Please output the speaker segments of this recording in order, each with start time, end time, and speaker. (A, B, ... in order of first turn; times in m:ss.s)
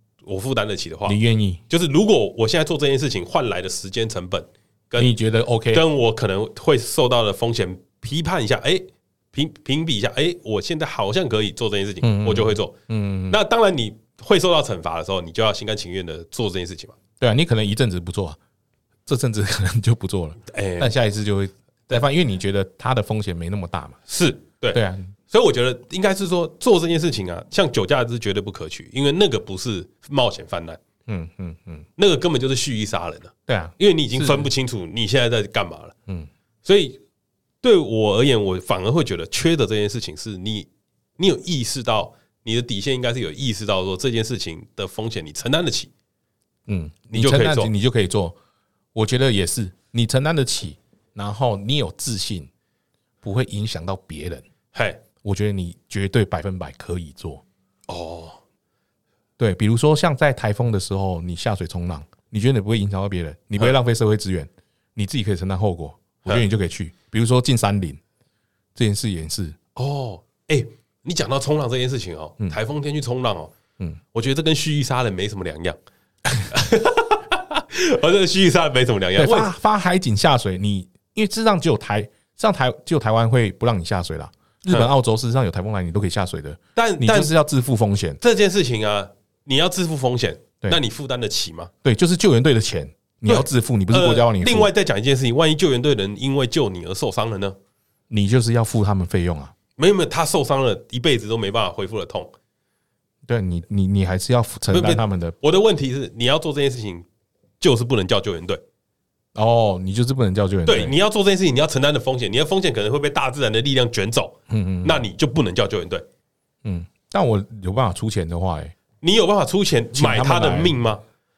0:00.2-0:01.2 A
0:01.0-0:01.6 B
0:01.7-0:05.1 A
0:05.0-0:05.9 B
0:05.7-0:12.7 A
0:12.0-0:13.4 B
0:13.3-0:17.0 A
0:17.2-0:18.4 B
0:19.1-0:24.0 B
0:20.5-0:20.9 A
0:24.1-0:30.8 A
0:24.7-0:25.1 B
0:31.1-0:31.9 B
0:32.0-0:35.9 A
0:33.5-0:34.5 B
0:36.6-0:37.0 A
0:37.6-0:45.9 A
0:46.7-0:48.4 B
0:47.1-0:47.7 A
0:48.9-0:52.5 B
0:53.2-0:54.4 B
0:54.7-0:55.0 A
0:55.2-0:57.4 B
0:57.9-0:58.4 A
0:59.4-1:08.0 B
1:08.8-1:09.6 B
1:09.7-1:13.5 A
1:14.1-1:15.8 A
1:16.4-1:19.5 A
1:19.2-1:28.2 B
1:26.8-1:27.3 A
1:28.2-1:31.7 A
1:31.8-1:34.7 B
1:33.2-1:37.6 A
1:38.1-1:39.5 B
1:39.8-1:42.3 A
1:43.3-1:45.3 B
1:44.7-1:47.0 A
1:47.6-1:48.6 A
1:49.3-1:50.9 B
1:50.6-1:56.0 A
1:54.5-1:55.0 B
1:56.6-1:58.7 B
1:59.0-2:01.0 A
1:59.9-2:00.8 B